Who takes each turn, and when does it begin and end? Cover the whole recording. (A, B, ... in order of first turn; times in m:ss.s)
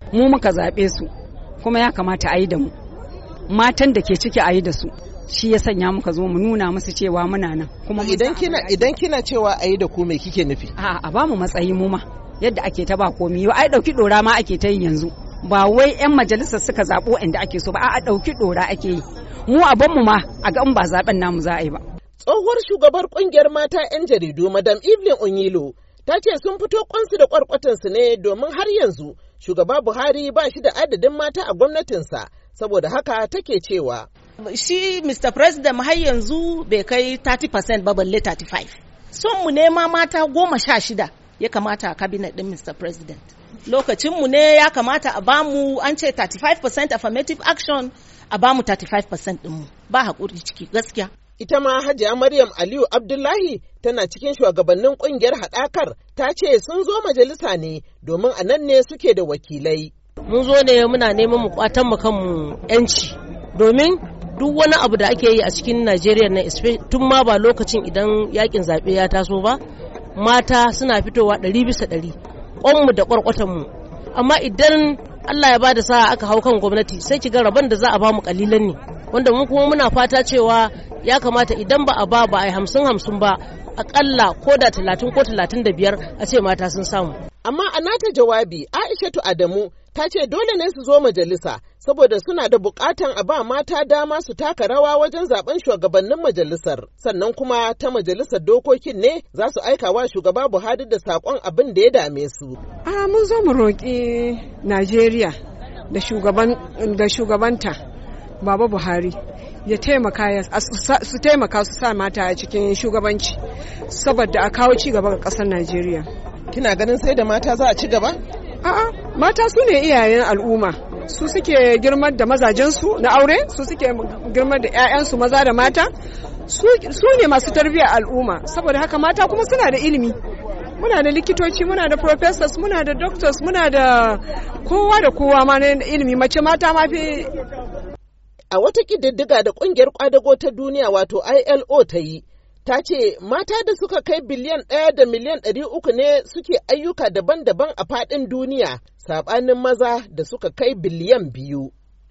0:00.1-0:01.1 A
0:01.6-0:02.7 A
0:03.5-0:08.9 A
0:08.0-0:10.7 B
0:10.8-0:21.8 A
0:22.2-0:34.1 B
0:34.4-0:51.1 C
0:51.4-0:59.9 B
1:00.3-1:09.6 D
1:10.2-1:27.2 D
1:27.4-1:42.6 B
1:42.8-1:45.4 E
1:45.9-1:47.8 E
1:48.4-1:56.1 E
1:56.5-1:58.2 B
1:58.6-2:05.9 E
2:06.5-2:10.2 E
2:10.8-2:17.3 E
2:18.5-2:31.7 B